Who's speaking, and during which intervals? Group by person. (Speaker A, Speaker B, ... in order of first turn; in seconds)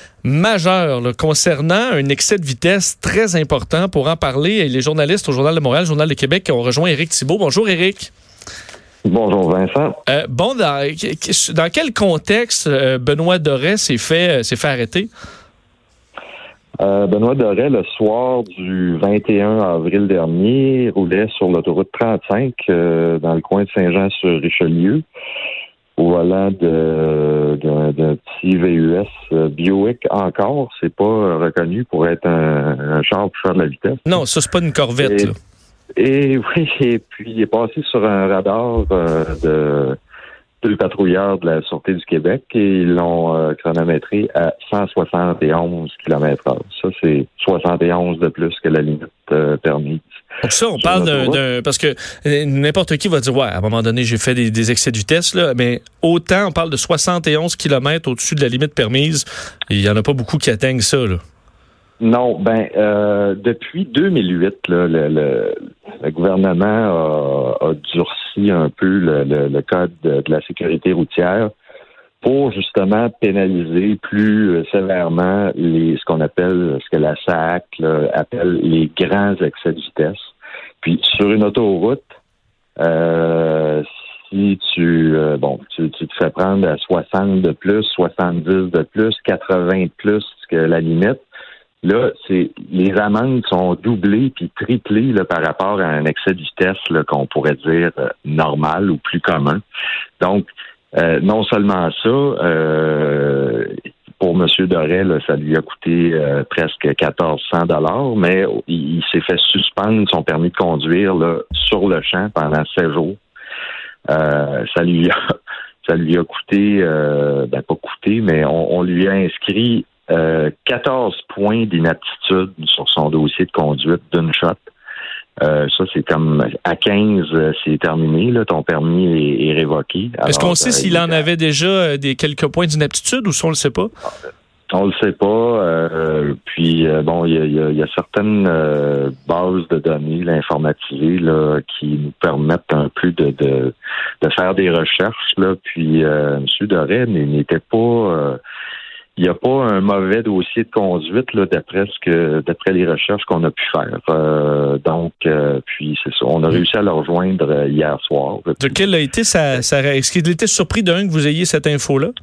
Speaker A: 0.2-8.1, 10.1-15.1, 34.1-35.4, 50.4-61.2, 130.3-133.9, 158.6-162.1
Speaker B: 9.1-10.0, 16.8-25.0, 26.0-34.1, 35.0-35.3, 36.0-40.0, 40.6-50.0, 50.8-51.4, 62.0-71.5, 72.2-80.3, 80.8-82.1, 82.8-91.2, 91.8-99.6, 100.2-113.2, 114.1-115.2, 115.8-124.7, 125.4-131.2, 134.7-148.4, 149.2-158.8